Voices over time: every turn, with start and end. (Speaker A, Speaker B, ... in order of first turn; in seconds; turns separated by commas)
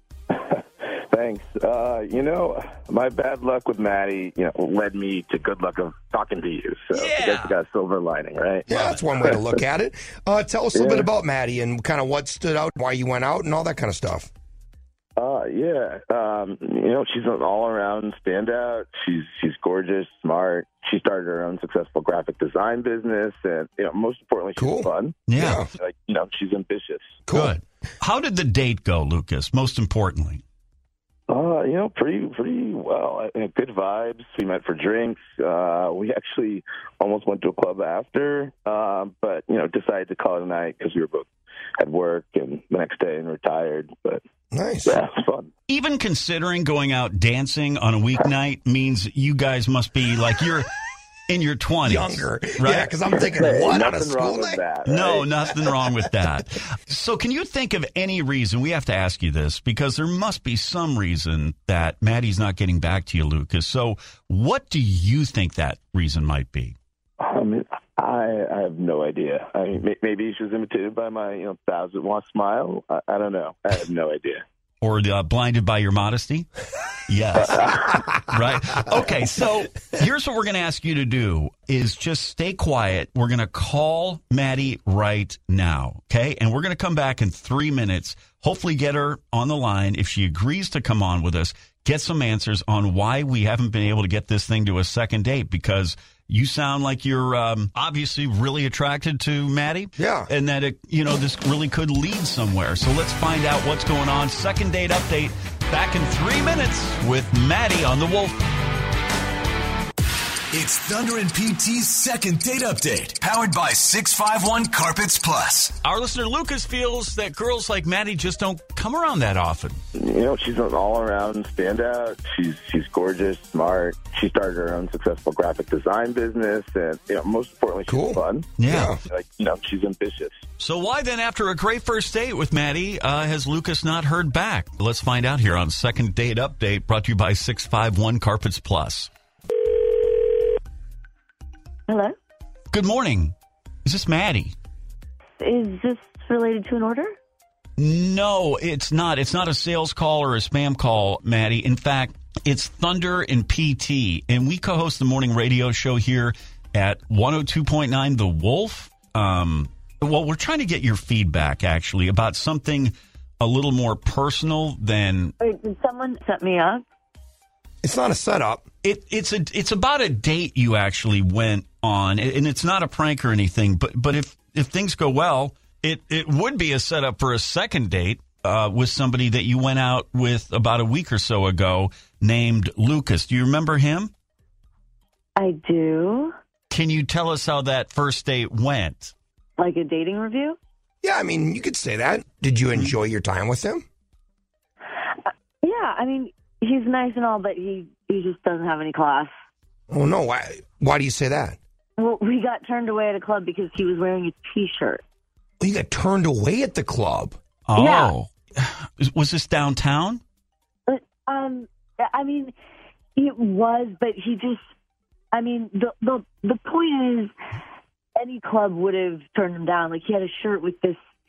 Speaker A: 0.3-8.7, Speaker B: 6.9-7.6, Speaker C: 8.7-14.3, Speaker B: 8.7-9.0, Speaker A: 9.2-9.5, Speaker A: 10.7-11.1, Speaker A: 15.2-25.2, Speaker C: 24.6-25.7, Speaker B: 25.3-25.6, Speaker A: 25.7-27.2, Speaker C: 27.3-27.6, Speaker B: 27.3-30.4, Speaker A: 31.3-44.2, Speaker C: 44.5-45.0, Speaker A: 44.9-45.5, Speaker B: 45.7-50.7, Speaker B: 51.3-52.9, Speaker C: 51.8-54.6, Speaker A: 53.1-55.3, Speaker B: 54.8-66.8, Speaker A: 67.2-74.4, Speaker B: 74.8-76.5, Speaker B: 77.1-108.4, Speaker A: 77.5-77.9, Speaker C: 100.0-100.3, Speaker D: 110.5-115.8, Speaker B: 115.8-119.8, Speaker A: 119.9-128.5, Speaker C: 127.9-129.0, Speaker B: 128.6-129.0, Speaker A: 129.0-130.4, Speaker B: 130.6-139.1, Speaker E: 141.9-142.1, Speaker B: 142.7-144.5, Speaker E: 145.4-147.1, Speaker B: 147.8-165.3, Speaker E: 165.4-166.8, Speaker C: 167.8-168.6, Speaker B: 168.8-184.1, Speaker E: 185.3-186.3, Speaker B: 186.7-189.1, Speaker E: 189.6-190.6, Speaker C: 191.0-193.8, Speaker E: 195.2-199.3, Speaker C: 199.9-201.6, Speaker E: 202.0-205.0, Speaker C: 205.6-207.3, Speaker B: 207.7-210.2, Speaker E: 207.8-208.1, Speaker E: 210.9-212.5, Speaker E: 213.2-214.6, Speaker E: 215.3-217.3, Speaker E: 218.2-221.0